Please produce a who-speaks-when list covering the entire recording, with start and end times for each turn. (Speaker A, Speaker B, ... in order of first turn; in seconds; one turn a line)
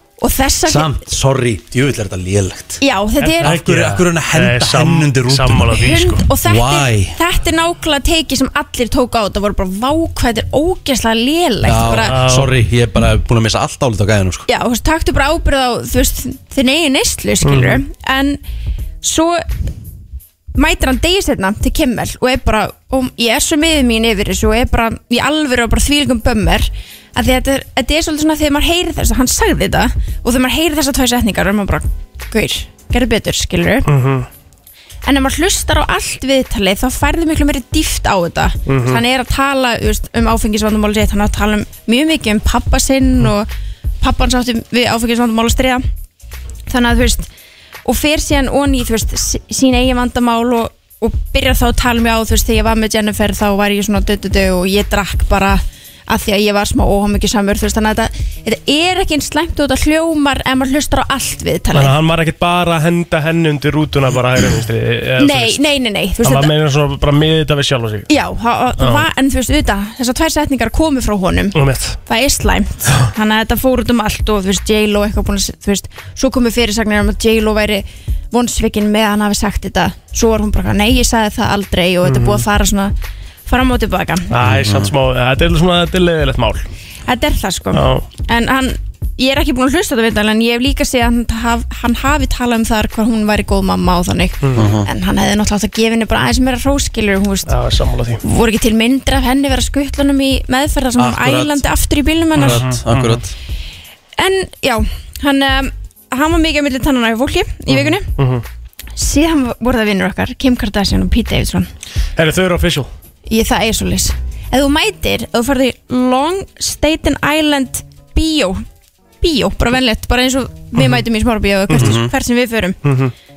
Speaker A: 0.2-1.0
Speaker B: 0.6-2.8
Speaker A: 2.8-3.5
Speaker C: 3.2-6.2
Speaker B: 3.4-5.8
Speaker A: 5.7-12.2
Speaker B: 6.4-7.2
Speaker B: 11.6-14.5
Speaker C: 12.0-12.5
Speaker A: 14.5-18.4
Speaker C: 17.4-17.8
Speaker A: 19.0-19.4
Speaker A: 20.5-33.9
Speaker C: 33.8-34.3
Speaker A: 35.0-43.5
Speaker C: 38.7-39.0
Speaker A: 44.0-45.8
Speaker A: 46.7-47.3
Speaker A: 47.8-61.9
Speaker C: 61.7-65.6
Speaker A: 65.2-66.5
Speaker C: 66.2-68.1
Speaker A: 68.1-82.9
Speaker C: 68.8-69.0
Speaker C: 71.5-72.0
Speaker C: 82.0-82.4
Speaker A: 83.5-84.3
Speaker C: 84.3-86.7
Speaker B: 84.4-84.9
Speaker A: 87.1-97.5
Speaker C: 87.7-88.0
Speaker C: 94.4-94.7
Speaker B: 94.5-94.9
Speaker C: 97.5-98.2
Speaker A: 98.2-102.6
Speaker B: 101.0-101.7
Speaker B: 102.3-103.3
Speaker C: 102.3-103.2
Speaker A: 104.2-108.1
Speaker C: 107.7-108.4
Speaker A: 109.0-111.7
Speaker C: 112.2-112.9
Speaker A: 113.3-118.6
Speaker A: 119.2-122.8
Speaker C: 120.8-121.0
Speaker C: 121.7-122.0
Speaker B: 121.8-122.1
Speaker C: 122.8-123.1